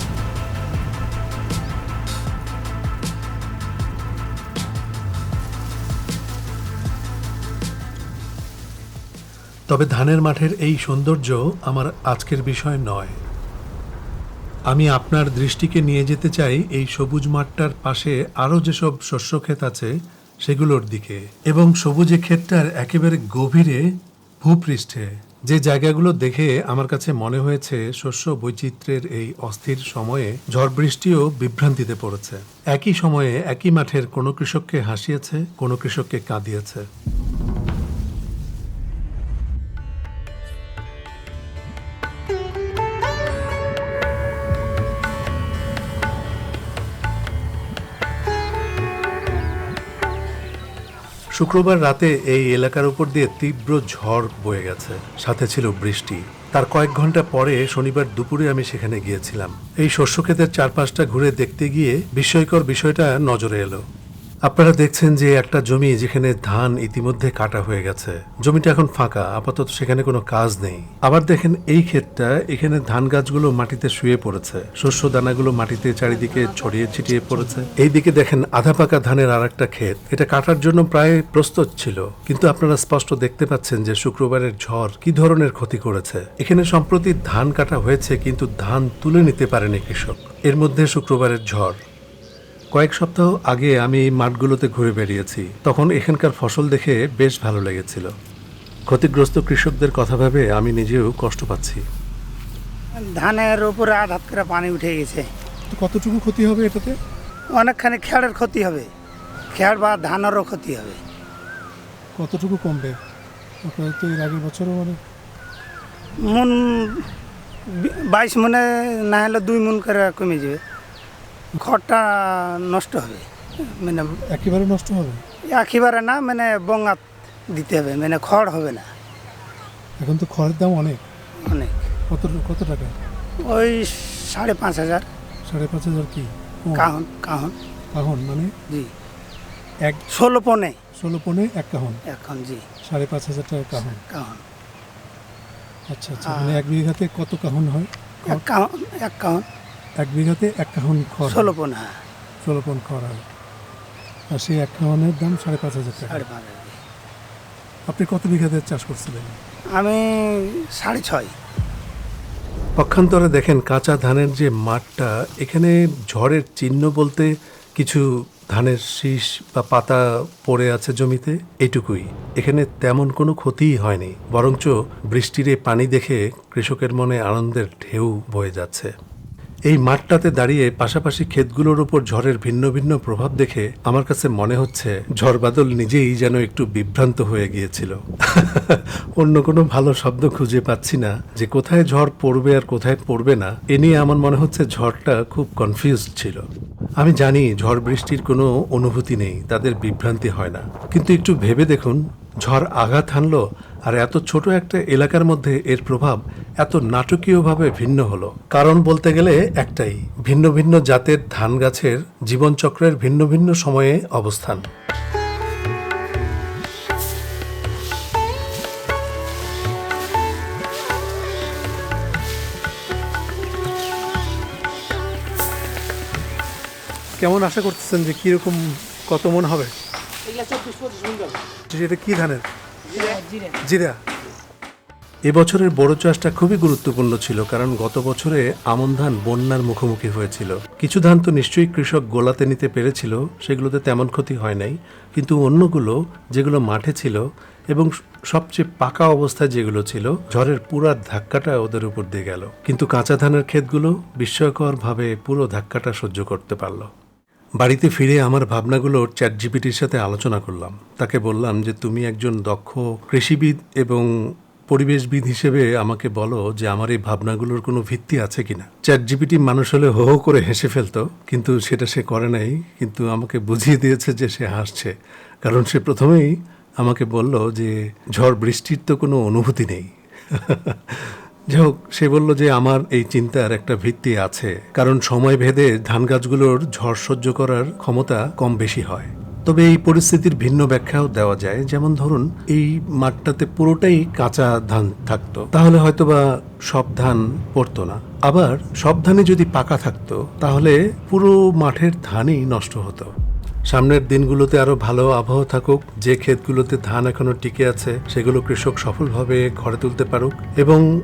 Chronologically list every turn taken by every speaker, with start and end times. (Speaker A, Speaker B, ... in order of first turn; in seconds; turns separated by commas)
Speaker A: 9.7-13.2, Speaker A: 14.7-19.9, Speaker A: 20.4-23.9, Speaker A: 24.4-36.8, Speaker A: 51.3-63.8, Speaker A: 64.5-91.8, Speaker A: 92.7-98.1, Speaker A: 98.9-101.8, Speaker B: 103.0-105.3, Speaker C: 105.7-107.0, Speaker B: 107.5-108.9, Speaker B: 109.5-111.0, Speaker C: 112.1-113.0, Speaker C: 113.6-115.0, Speaker B: 116.2-117.1, Speaker B: 117.7-120.6, Speaker B: 121.5-124.2, Speaker C: 124.2-125.2, Speaker B: 125.5-128.9, Speaker C: 130.0-131.0, Speaker B: 131.4-131.9, Speaker C: 132.1-132.9, Speaker B: 133.4-135.1, Speaker C: 135.4-136.8, Speaker B: 136.7-137.5, Speaker C: 137.9-138.5, Speaker B: 140.1-140.8, Speaker C: 141.0-142.0, Speaker B: 142.1-142.7, Speaker C: 142.8-144.0, Speaker B: 143.8-144.4, Speaker C: 145.9-147.9, Speaker B: 146.2-146.7, Speaker B: 148.2-149.4, Speaker C: 150.0-151.4, Speaker B: 151.2-152.0, Speaker C: 152.4-153.2, Speaker C: 154.3-156.2, Speaker B: 156.0-156.8, Speaker C: 157.9-159.4, Speaker B: 159.7-161.3, Speaker A: 162.8-178.9, Speaker A: 179.7-196.4, Speaker A: 197.0-214.6, Speaker C: 227.2-229.7, Speaker A: 229.1-229.7, Speaker B: 230.3-231.4, Speaker C: 231.7-232.4, Speaker A: 231.7-232.0, Speaker B: 232.9-233.5, Speaker A: 235.3-256.9, Speaker A: 257.6-264.1, Speaker A: 264.7-274.9, Speaker A: 275.4-303.1, Speaker A: 303.7-310.8